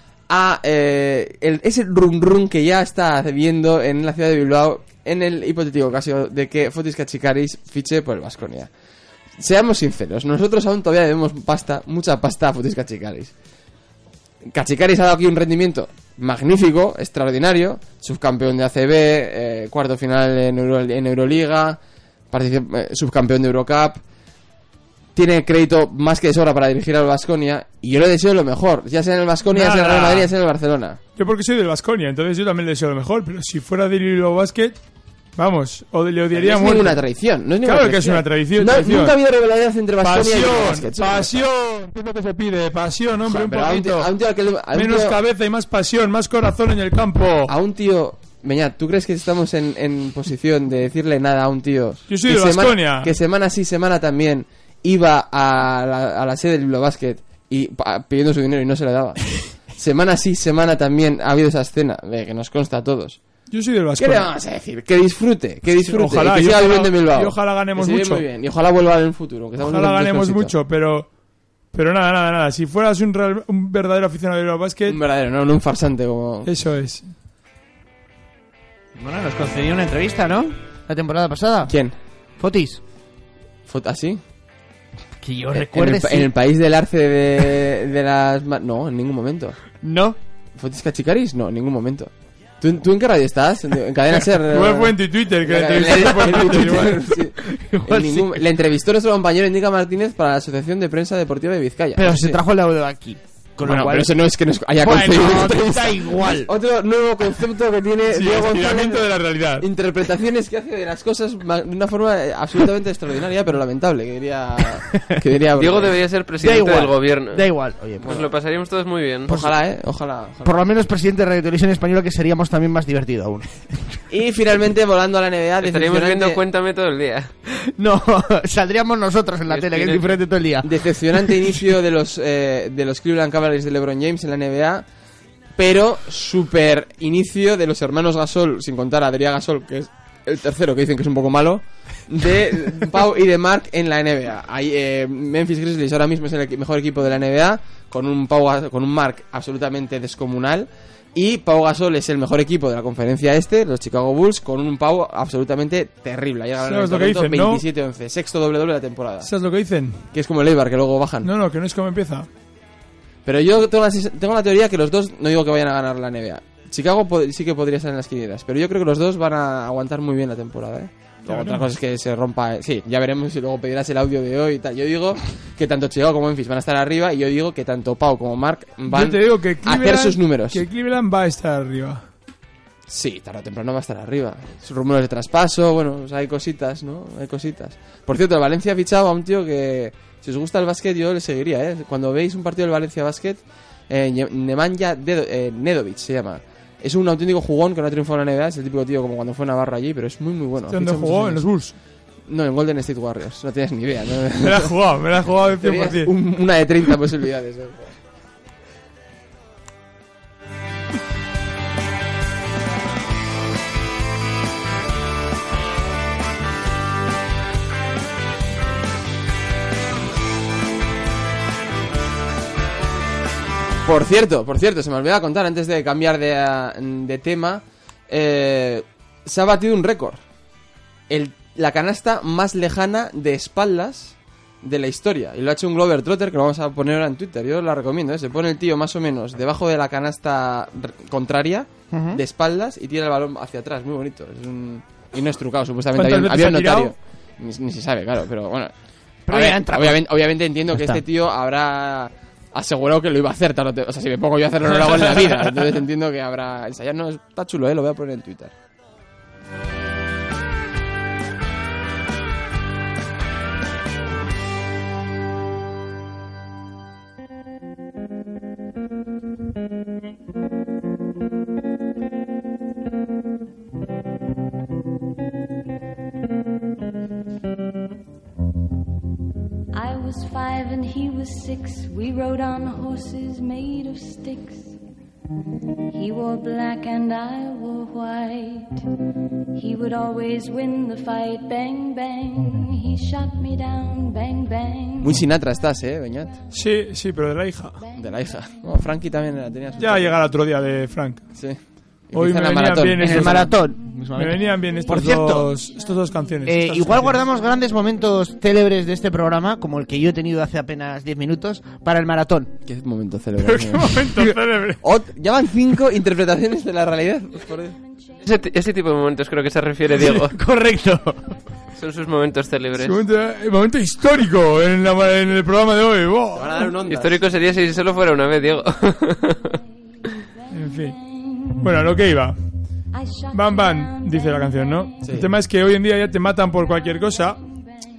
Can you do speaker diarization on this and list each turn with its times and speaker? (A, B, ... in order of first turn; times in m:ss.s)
0:00.3-0:08.7 A
0:09.4-0:13.3 A
0:14.4-0:21.8 A
0:22.3-0:24.0 A
0:25.1-0:31.0 A
0:29.5-0:30.3 B
0:31.2-0:34.8 B
0:35.4-0:37.0 B
0:36.3-0:41.4 A
0:37.6-0:39.1 B
0:40.0-0:44.1 B
0:43.2-0:45.2 A
0:44.7-0:47.5 B
0:47.5-1:03.2 A
0:52.1-0:53.1 B
1:03.5-1:04.3 B
1:04.0-1:10.5 A
1:05.7-1:08.2 B
1:09.6-1:11.1 B
1:11.7-1:15.0 B
1:14.9-1:16.5 A
1:16.4-1:17.0 B
1:19.0-1:21.7 C
1:21.7-1:22.0 A
1:22.4-1:22.8 C
1:23.6-1:24.2 A
1:25.2-1:26.3 C
1:25.5-1:29.6 A
1:29.8-1:30.2 C
1:30.6-1:42.4 A
1:34.4-1:37.1 B
1:37.4-1:38.4 C
1:42.0-1:44.1 C
1:43.6-1:56.0 A
1:44.8-1:46.5 C
1:48.1-1:49.6 B
1:55.6-1:57.4 D
1:56.4-1:58.1 C
1:58.0-1:58.3 A
1:58.0-1:59.3 D
1:59.3-2:00.6 A
2:00.4-2:03.8 C
2:04.1-2:06.4 A
2:05.6-2:07.3 D
2:07.6-2:10.7 C
2:09.5-2:10.1 D
2:10.6-2:14.8 A
2:15.6-2:39.3 A
2:36.6-2:37.6 B
2:39.2-2:40.0 B
2:40.1-2:41.3 A
2:41.2-2:42.3 B
2:43.2-3:00.6 A
2:51.2-2:51.7 B
2:58.9-3:02.1 B
3:02.9-3:21.5 A
3:20.7-3:21.7 B
3:22.3-3:24.7 A
3:24.4-3:26.1 B
3:25.6-3:27.9 A
3:43.8-3:50.2 A
3:51.1-4:08.7 A
4:01.9-4:02.2 C
4:05.9-4:06.9 B
4:09.3-4:10.0 C
4:09.3-4:18.5 A
4:10.7-4:11.0 C
4:39.7-4:44.8 E
4:45.9-4:48.8 E
4:49.5-4:55.2 E
4:55.0-4:56.4 A
4:56.5-4:57.8 B
4:57.9-5:00.2 A
4:59.8-5:01.2 B
5:02.1-5:03.5 A
5:02.1-5:03.6 B
5:03.0-5:05.5 C
5:04.1-5:07.2 B
5:06.4-5:12.5 C
5:12.6-5:14.2 A
5:13.4-5:14.8 B
5:14.8-5:17.8 A
5:18.2-5:20.3 D
5:20.0-5:21.3 C
5:21.8-5:23.0 D
5:22.8-5:26.7 B
5:26.3-5:27.3 A
5:26.9-5:29.6 D
5:30.5-5:31.0 B
5:30.7-5:31.7 E
5:31.6-5:32.4 B
5:32.9-5:34.9 E
5:33.3-5:37.4 B
5:35.0-5:35.3 A